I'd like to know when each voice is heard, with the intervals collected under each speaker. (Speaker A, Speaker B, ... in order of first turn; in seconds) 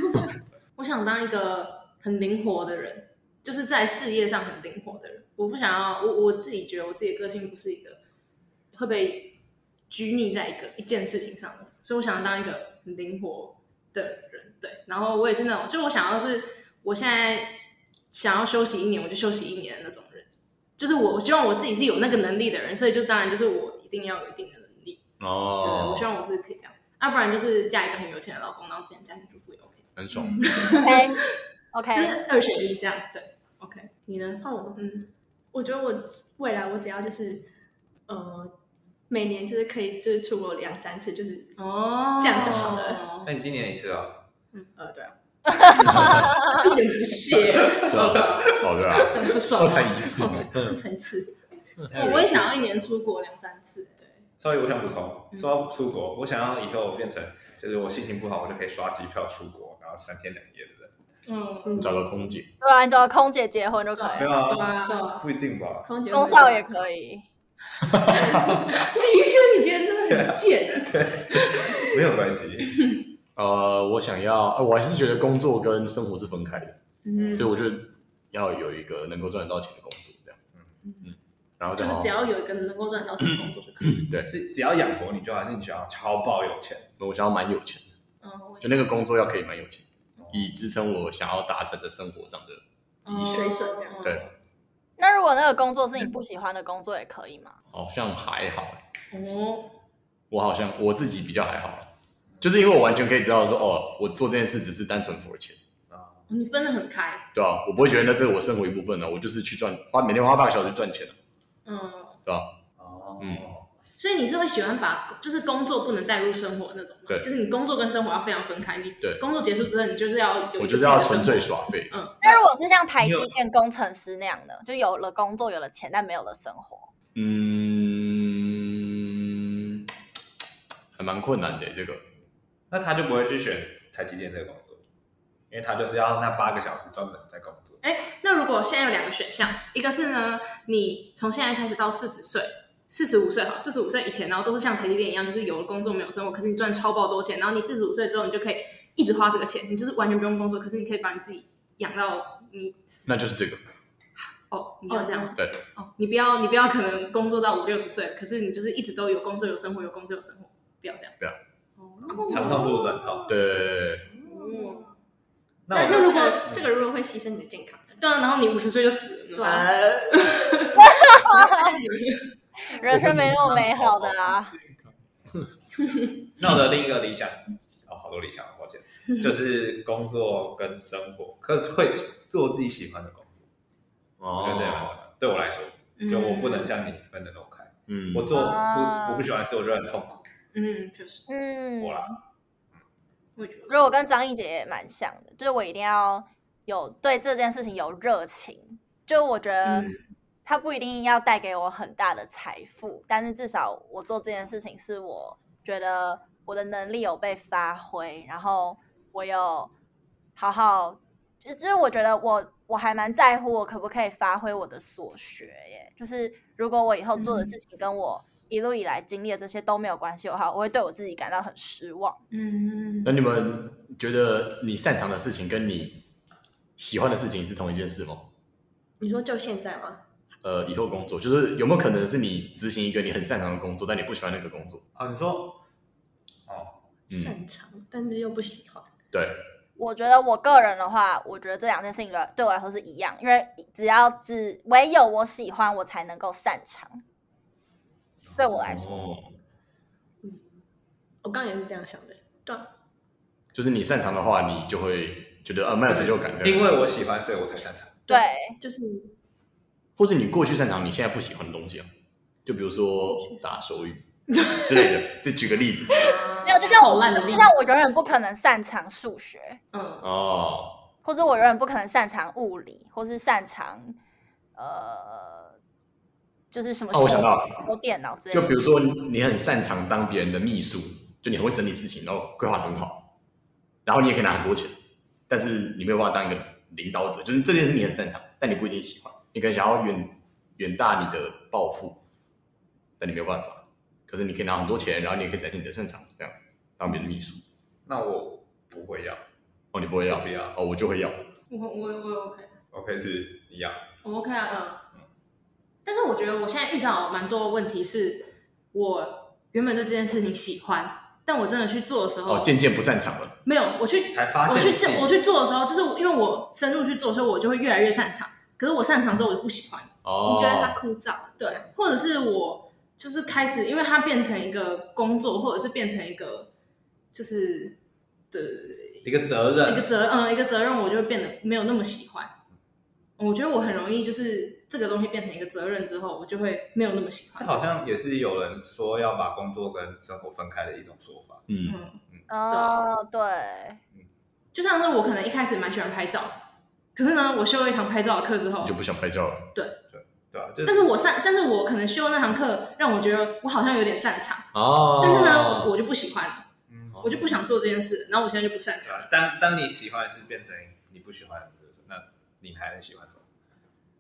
Speaker A: 0.8-8.0, 8.7-9.4, 9.9-17.6, 18.1-25.0, 25.6-31.3, 31.9-35.1, 41.6-43.4, 45.9-51.4, 51.9-54.0, 61.3-62.0, 64.0-65.2, 68.1-71.8, 77.0-77.5, 80.8-81.1, 81.8-84.1, 88.2-89.0, 93.1-94.3, 99.1-99.7, 106.3-107.3, 111.7-112.2, 114.0-122.3, 137.8-153.1, 154.2-161.2, 161.8-163.0, 164.2-164.9, 165.7-166.5, 168.0-170.9, 171.7-172.3, 186.0-186.9, 190.5-191.3, 193.4-193.9, 199.6-200.0, 217.2-217.5, 222.3-223.2, 264.3-264.9, 266.0-267.5, 269.7-270.1, 301.5-302.5, 304.0-304.8, 305.9-312.5, 313.4-319.9, 321.4-326.5, 327.1-327.8, 328.3-329.1, 329.6-332.3, 333.2-337.7, 341.6-342.0, 342.5-342.8, 344.5-346.4, 346.9-348.8, 350.6-356.5, 357.0-359.1
Speaker B: 25.2-26.1, 30.0-30.6, 47.9-50.7, 61.7-62.5, 73.4-76.8, 77.3-80.4, 81.0-82.2, 83.8-84.3, 87.0-87.9, 88.6-93.4, 97.7-98.8, 100.3-105.6, 107.3-111.2, 113.2-113.5, 120.6-121.9, 127.2-129.9, 131.0-132.0, 153.1-153.6, 163.3-164.1, 172.9-174.1, 184.2-184.9, 187.9-188.4, 223.1-226.0, 226.8-228.3, 230.4-234.8, 239.1-239.4, 248.6-249.3, 253.5-256.7, 260.0-261.9, 262.5-266.1, 270.0-270.8, 276.9-277.7, 278.3-283.1, 283.9-284.8, 285.3-292.0, 293.0-297.4, 299.7-301.2, 312.3-313.4, 320.0-320.8, 341.5-341.8, 348.6-349.5, 354.5-355.7
Speaker C: 30.7-31.2, 31.7-32.2, 45.6-46.3, 62.6-64.3, 66.1-67.2, 95.0-97.6, 122.2-126.9, 170.8-171.7, 172.7-174.5, 188.3-189.3, 191.3-192.2, 193.7-199.9, 200.5-209.7, 210.4-222.2, 239.8-247.0, 248.4-249.0, 258.1-258.6, 266.4-269.6, 271.0-274.0, 274.6-275.6, 276.5-278.6, 342.3-343.8
Speaker D: 34.4-34.8, 35.5-37.5, 38.1-38.5, 39.1-41.6, 42.2-43.0, 44.8-45.2, 65.8-66.8, 93.2-94.0, 154.9-155.4, 162.1-163.1, 164.1-164.9, 165.7-168.0, 169.4-170.5, 171.1-172.1, 229.0-230.0, 237.1-238.9, 250.2-250.6, 251.2-252.7, 258.1-259.1, 320.2-321.8
Speaker E: 43.2-44.2, 47.8-48.4, 51.9-52.6, 54.4-60.9, 64.2-65.9, 67.9-68.9, 70.1-72.8, 77.2-77.5, 84.3-86.9, 90.2-90.5, 105.9-106.3, 112.8-113.7, 123.0-123.3, 132.7-134.8, 135.5-137.8, 162.1-163.4, 165.7-166.0, 176.4-183.5, 184.4-190.2, 191.8-192.1, 235.0-235.6, 236.5-236.8, 255.9-258.0, 297.9-299.2, 300.1-300.5, 302.7-303.8, 314.1-315.1, 329.0-329.9, 337.4-341.5, 349.9-350.9, 356.7-357.4, 358.9-363.2